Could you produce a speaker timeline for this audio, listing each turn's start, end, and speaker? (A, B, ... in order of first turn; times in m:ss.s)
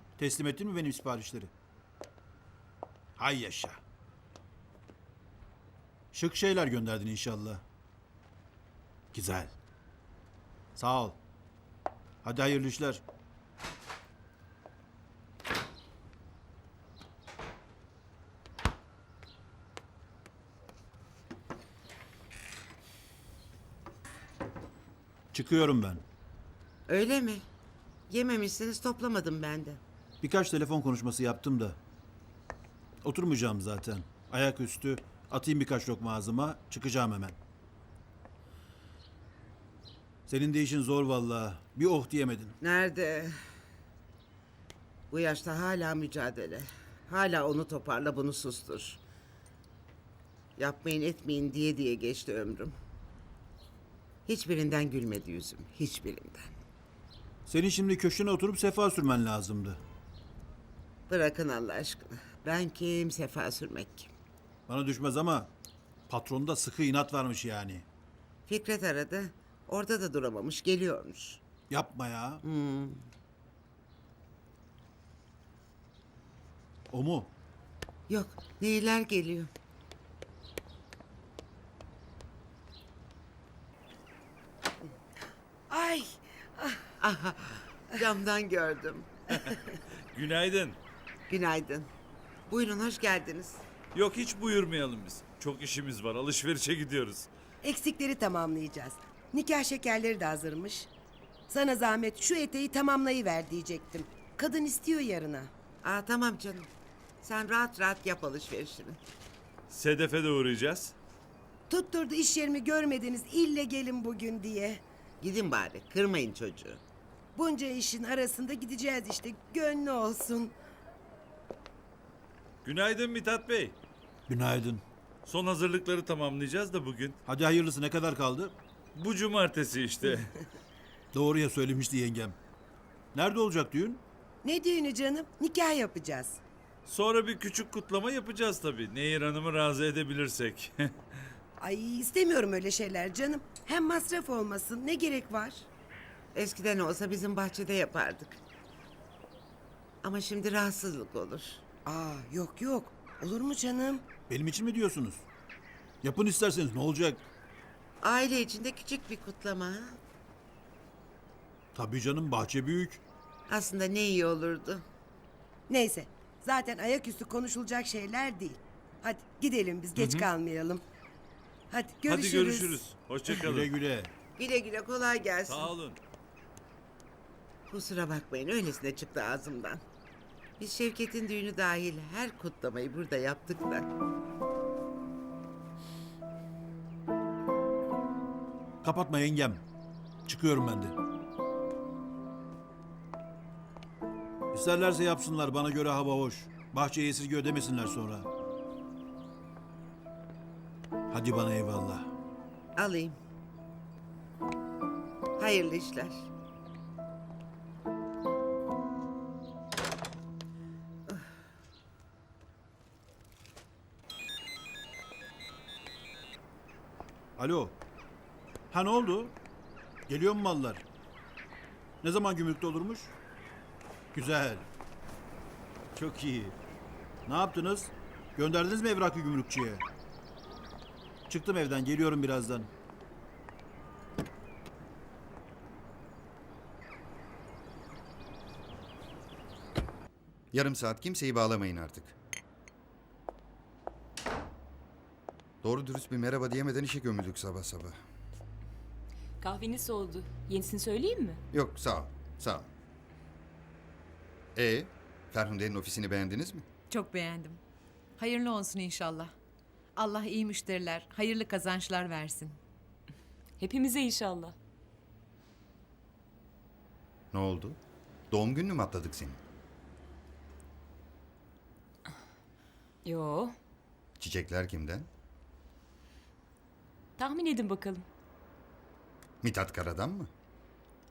0:00.2-0:01.5 A
0:03.2-0:03.8 A
0:06.1-0:07.6 A
0:09.1-0:09.5 A
0:10.8-0:11.2 A
0:12.2-0:13.0 A
0:25.3-0:26.0 A
0:26.9-0:27.4 B
0:28.1-0:29.8 B
0:30.2-0:31.8 A
0:33.0-0:37.4 A
0:40.3-0:42.6 A
0:42.6-0:43.3 B
0:45.1-0:49.0 B
0:50.6-0:52.8 B
0:54.3-0:56.5 B
0:57.5-0:59.8 A
1:01.1-1:04.1 B
1:04.7-1:05.5 A
1:06.1-1:07.9 A
1:08.5-1:11.4 B
1:11.7-1:12.4 A
1:12.4-1:13.0 B
1:16.9-1:17.3 A
1:18.1-1:19.5 B
1:25.7-1:26.8 C
1:27.0-1:29.5 B
1:30.1-1:30.8 D
1:31.3-1:31.9 B
1:32.5-1:33.6 B
1:33.9-1:37.3 D
1:37.6-1:40.9 C
1:41.5-1:45.5 C
1:45.8-1:46.7 B
1:47.2-1:49.0 B
1:49.7-1:51.0 D
1:51.7-1:54.8 C
1:55.2-1:56.8 B
1:57.4-2:00.5 C
2:02.6-2:03.8 D
2:04.3-2:04.8 A
2:05.3-2:07.2 D
2:07.3-2:08.6 A
2:09.0-2:10.3 D
2:11.1-2:12.4 A
2:13.1-2:14.0 A
2:14.4-2:16.4 C
2:16.9-2:20.9 D
2:21.6-2:25.7 C
2:26.3-2:28.4 B
2:30.0-2:31.6 B
2:31.9-2:34.0 C
2:34.3-2:35.3 A
2:36.0-2:37.2 A
2:38.0-2:40.0 B
2:41.7-2:43.0 A
2:43.5-2:44.8 B
2:45.7-2:50.8 C
2:51.7-2:52.8 C
2:52.1-2:53.7 D
2:53.4-2:54.1 A
2:54.4-2:55.7 B
2:55.4-2:56.0 D
2:57.7-2:59.8 B
3:00.6-3:03.9 B
3:08.8-3:09.6 A
3:10.3-3:11.0 A
3:14.5-3:18.3 A
3:21.1-3:22.1 A
3:22.8-3:23.2 B
3:25.4-3:26.3 B
3:37.4-3:37.8 A
3:38.7-3:39.4 A
3:40.1-3:40.8 A
3:42.0-3:43.1 A
3:44.1-3:44.7 A
3:45.9-3:46.6 A
3:47.3-3:49.8 A
3:51.3-3:52.7 A
4:00.5-4:02.2 E
4:05.6-4:08.0 E
4:09.4-4:11.4 F
4:11.5-4:12.7 E
4:14.6-4:16.6 E
4:16.9-4:17.6 G
4:18.2-4:19.3 G
4:20.0-4:22.6 G
4:23.6-4:24.6 F
4:27.3-4:27.8 E
4:28.3-4:29.4 E
4:33.0-4:33.6 F
4:34.2-4:35.1 E
4:37.2-4:38.0 F
4:39.4-4:40.3 E